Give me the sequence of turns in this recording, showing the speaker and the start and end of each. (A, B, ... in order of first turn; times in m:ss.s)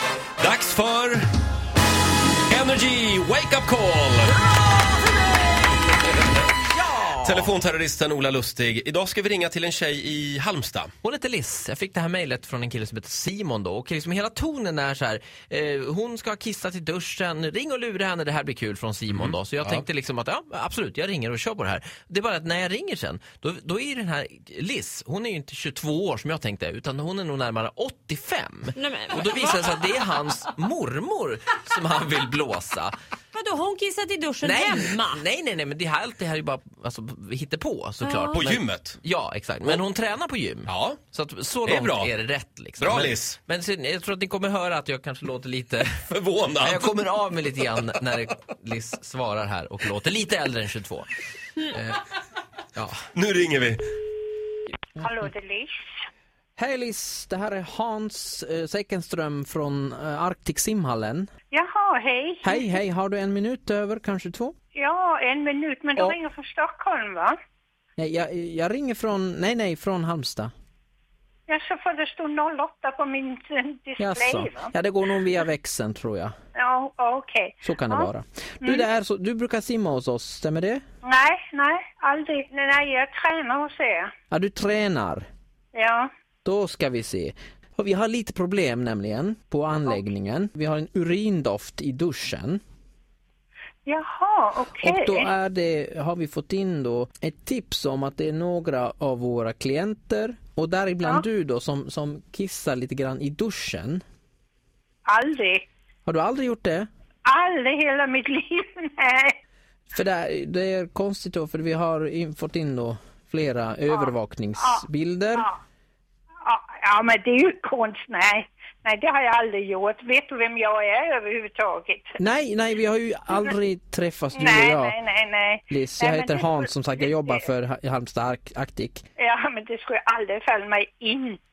0:00.4-0:01.2 A
0:02.5-0:04.4 A
0:04.4-0:05.8 B
0:06.4-0:07.6 B
0:07.2-0:10.9 A
0:11.0-0:32.9 B
0:19.2-0:19.8 A
0:28.7-0:29.8 C
0:33.3-0:35.2 C
0:34.4-0:46.0 B
0:38.0-0:38.4 C
0:38.4-0:39.0 A
0:40.7-0:41.0 A
0:41.6-0:42.1 A
0:42.8-0:43.3 A
0:46.1-0:47.0 A
0:46.6-0:51.1 B
0:51.6-0:52.0 B
0:53.1-0:53.8 A
0:55.0-0:55.9 D
0:56.6-1:01.3 E
1:01.5-1:02.7 D
1:02.4-1:04.5 E
1:04.7-1:07.4 D
1:08.0-1:10.5 E
1:11.5-1:14.7 D
1:14.0-1:16.3 E
1:16.6-1:18.1 D
1:17.6-1:20.8 E
1:21.0-1:24.1 D
1:24.3-1:25.2 E
1:25.7-1:26.1 D
1:26.4-1:32.6 E
1:33.8-1:35.3 D
1:34.8-1:44.0 E
1:45.0-1:45.6 D
1:46.0-1:46.9 E
1:47.2-1:49.3 D
1:49.9-1:55.5 E
1:53.9-1:55.5 D
1:56.4-2:02.1 D
2:02.2-2:05.0 E
2:04.3-2:06.7 D
2:05.7-2:09.0 E
2:09.2-2:11.4 D